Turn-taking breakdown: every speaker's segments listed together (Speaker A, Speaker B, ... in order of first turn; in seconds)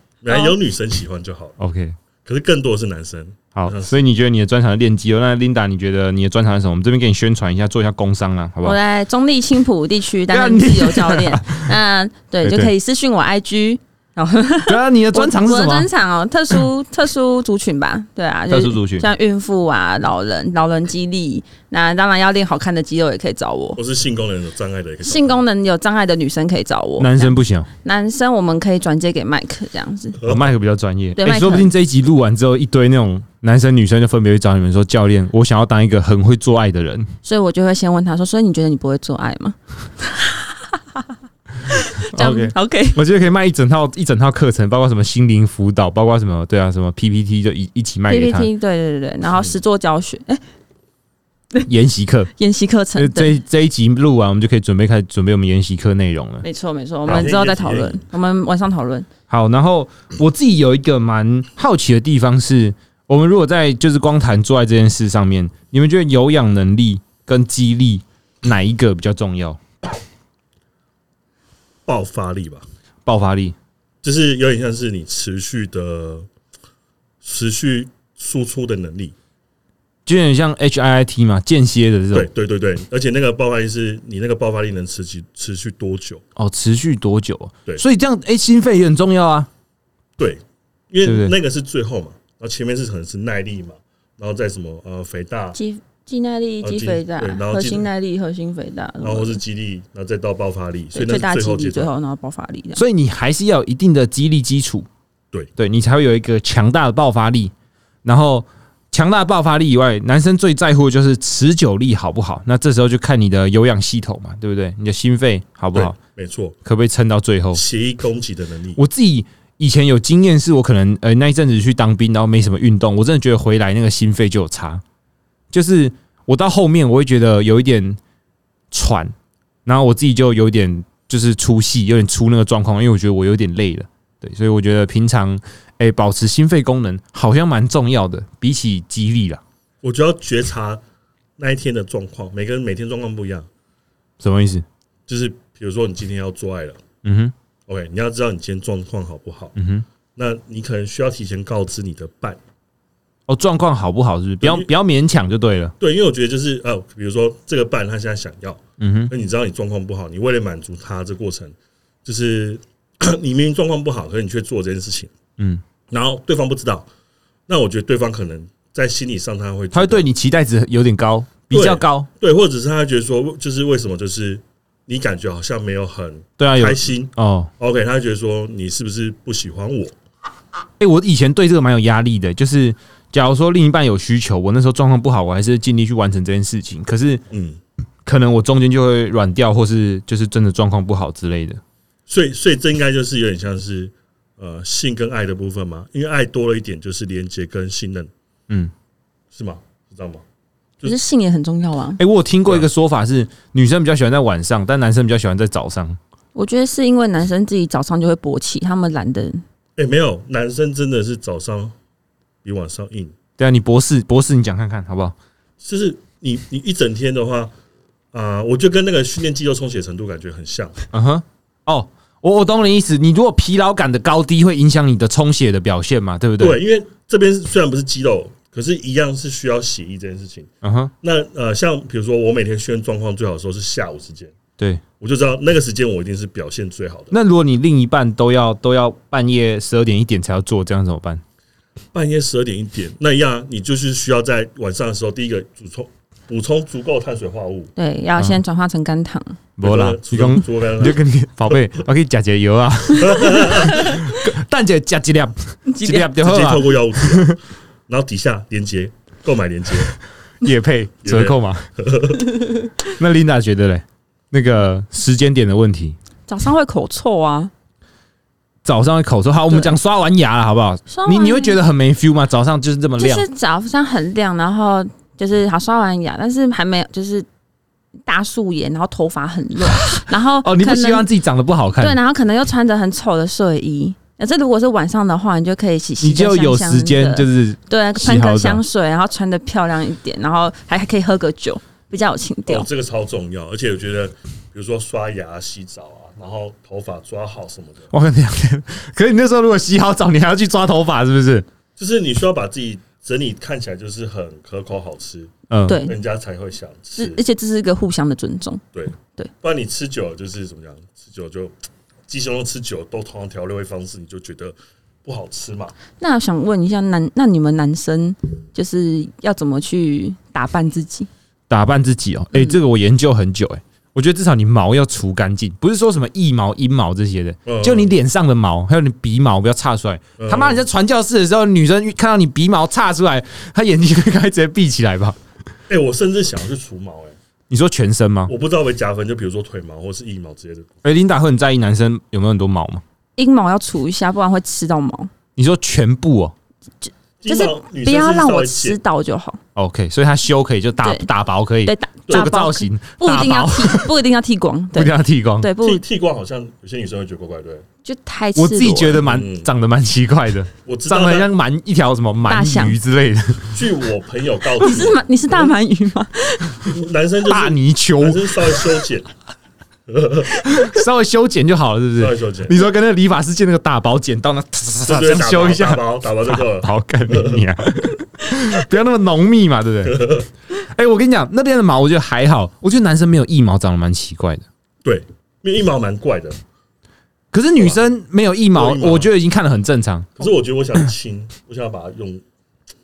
Speaker A: 0.2-1.6, 2.2-3.9, 23.8-25.4, 30.2-30.4, 49.3-49.6, 57.0-58.0, 71.8-72.6, 74.0-76.3, 77.2-79.1, 82.1-86.2, 90.2-95.5, 96.6-97.9, 99.0-101.9, 115.7-116.5, 117.5-118.8, 139.8-140.8, 141.4-143.5, 145.1-146.8, 147.7-149.5, 150.2-152.4, 154.4-154.7, 155.8-165.1, 165.9-166.9, 167.5-170.1, 171.5-179.9, 187.3-187.6, 192.1-198.1, 199.3-200.2, 209.8-211.7, 212.4-213.1, 215.6-217.5, 218.1-220.8, 226.4-230.5, 231.0-234.3, 235.0-237.1, 241.9-247.7, 249.6-251.0, 252.9-253.9, 256.1-259.9, 261.0-262.3, 292.5-297.9, 301.8-305.3, 305.9-307.2, 308.7-311.6, 312.1-315.7, 327.4-327.9, 330.2-330.6, 335.7-337.2, 338.3-340.7, 347.2-348.8, 355.6-357.6, 359.0-359.5, 360.6-361.3, 363.5-365.5, 366.7-369.1, 369.9-370.3, 372.0-372.6, 374.8-377.4, 379.8-380.3, 384.8-386.4, 387.6-387.8, 388.5-389.1, 390.2-392.2
Speaker B: 1.6-1.9, 3.5-8.8, 10.3-11.7, 12.4-12.7, 14.7-15.9, 18.5-19.1, 27.0-27.7, 30.2-37.1, 42.1-48.5, 51.6-52.3, 53.0-56.4, 59.3-69.6, 73.0-73.5, 80.0-82.3, 86.3-89.5, 91.0-91.3, 102.7-104.9, 105.5-107.5, 108.0-116.0, 116.6-117.6, 118.8-124.8, 125.5-128.0, 128.7-129.1, 129.7-139.4, 144.2-144.6, 147.0-147.3, 149.6-149.8, 153.3-155.7, 158.8-159.1, 165.4-165.6, 169.7-172.1, 176.4-177.5, 180.8-187.2, 188.0-191.6, 202.0-206.0, 213.4-215.1, 220.9-226.6, 230.6-230.9, 237.1-241.2, 249.6-257.4, 260.4-261.7, 262.9-265.9, 268.6-273.2, 279.6-282.0, 286.0-288.6, 297.9-301.4, 305.5-305.8, 321.5-335.2, 337.5-338.3, 340.8-342.8, 345.4-346.3, 349.5-353.9, 354.7-355.5, 358.3-363.6, 367.2-368.4, 370.4-384.4, 387.3-390.2
Speaker C: 8.6-23.8, 25.0-30.2, 31.2-31.7, 37.2-40.8, 41.7-43.0, 48.1-50.4, 52.4-53.4, 56.4-59.1, 95.5-99.4, 100.9-102.8, 200.8-202.0, 206.3-209.4, 247.8-249.4, 255.7-256.1, 266.3-267.5, 270.9-271.6, 273.0-277.3, 278.1-281.1, 281.8-292.7, 305.7-305.9, 307.0-308.6, 316.0-321.1, 343.2-345.1, 346.8-349.4, 350.8-351.1, 351.6-355.8, 357.8-359.1, 362.3-362.8, 364.6-366.7